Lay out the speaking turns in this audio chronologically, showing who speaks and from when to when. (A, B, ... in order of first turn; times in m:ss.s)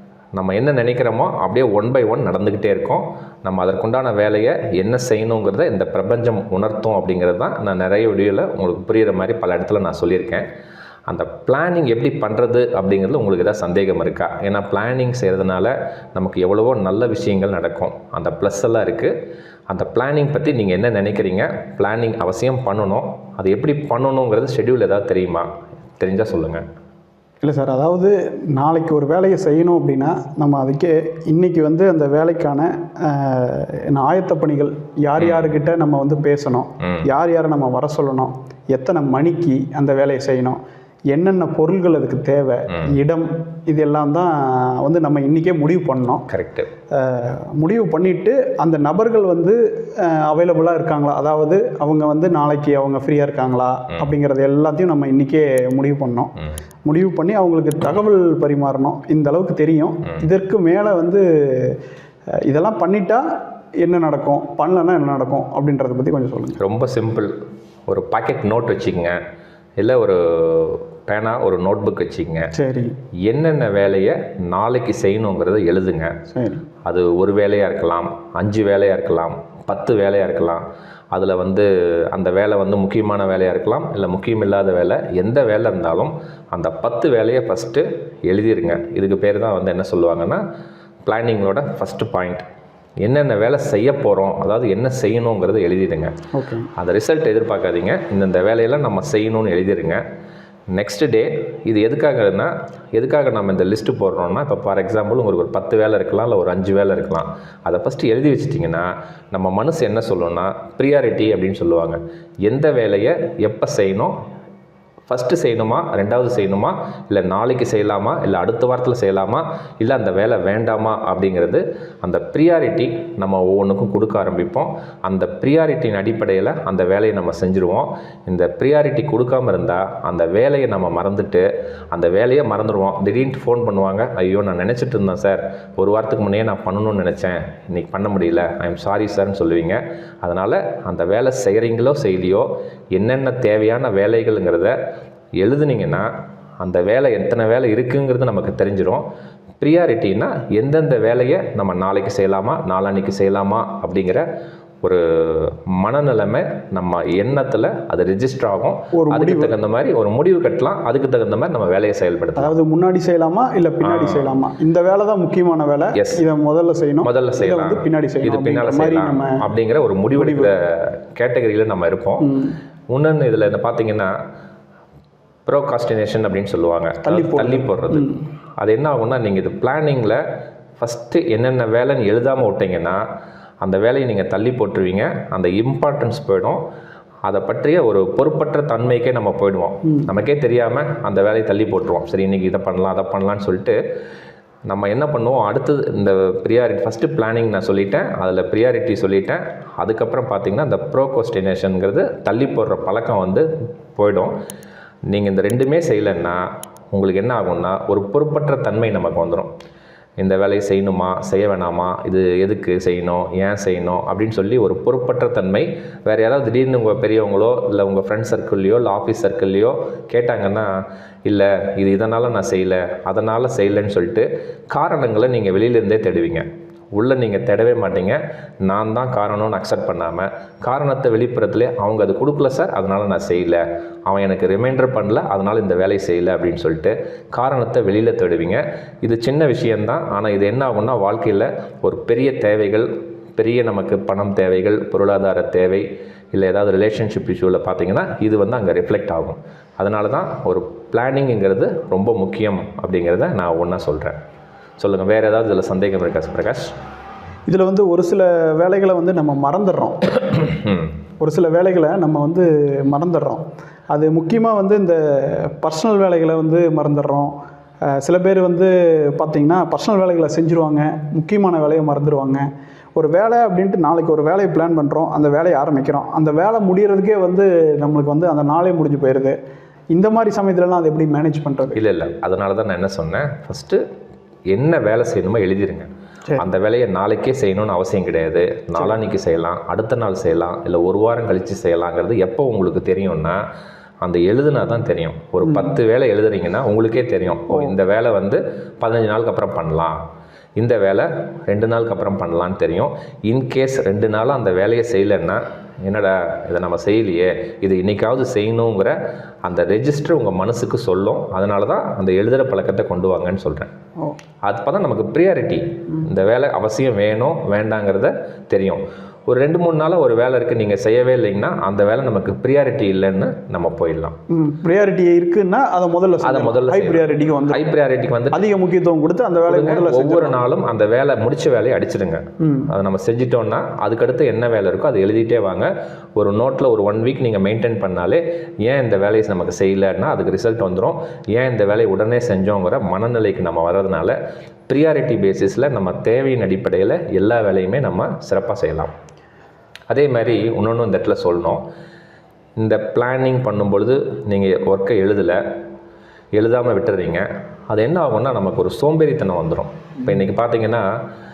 0:00.4-0:10.4 A
0:11.1-0:19.1 A
0:19.7-0:26.6 A
0:27.4-0:40.6 B
0:35.2-0:35.5 A
0:36.8-0:37.1 A
0:41.1-0:46.2 B
0:42.7-0:43.0 A
0:46.3-0:46.7 A
0:46.9-0:56.3 B
0:56.8-1:01.8 B
1:02.4-1:03.2 B
1:03.8-1:06.6 B
1:06.6-1:07.3 A
1:07.9-1:09.2 A
1:09.8-1:12.5 A
1:12.5-1:13.0 B
1:13.2-1:16.1 A
1:16.3-1:16.7 B
1:16.8-1:30.4 A
1:31.0-1:32.4 A
1:33.0-1:36.1 A
1:36.3-1:36.7 B
1:36.8-1:40.0 A
1:40.7-1:54.1 A
1:55.1-2:24.7 A
2:25.4-2:26.1 A
2:26.6-2:29.0 A
2:29.6-2:34.2 A
2:34.8-2:42.5 A
2:38.9-2:39.5 B
2:42.4-2:49.4 B
2:43.8-2:44.4 A
2:46.0-2:46.2 A
2:47.0-2:52.2 A
2:50.1-2:50.5 B
2:52.2-2:52.6 B
2:52.9-2:54.1 A
2:55.4-3:00.2 A
2:57.0-2:58.2 B
3:00.8-3:03.0 A
3:03.6-3:06.6 A
3:07.2-3:13.8 A
3:14.7-3:24.3 A
3:25.1-3:29.5 A
3:30.2-3:40.7 A
3:41.2-3:46.4 A
3:47.0-4:14.2 A
4:14.8-4:16.7 A
4:17.5-4:20.1 B
4:20.4-4:20.9 A
4:21.2-4:27.3 B
4:27.9-4:32.4 B
4:33.0-4:39.4 B
4:39.9-4:41.8 B
4:41.7-4:43.8 A
4:44.5-4:45.9 A
4:46.4-4:53.4 A
4:54.0-5:00.0 A
4:55.4-4:55.8 B
5:00.6-5:08.9 A
5:09.4-5:13.7 A
5:14.4-5:24.2 A
5:24.3-5:27.6 B
5:26.2-5:28.4 A
5:28.3-5:30.4 B
5:29.4-5:44.2 A
5:32.4-5:32.7 B
5:44.7-5:48.9 A
5:49.9-5:51.6 A
5:52.6-5:55.4 A
5:56.4-6:00.8 A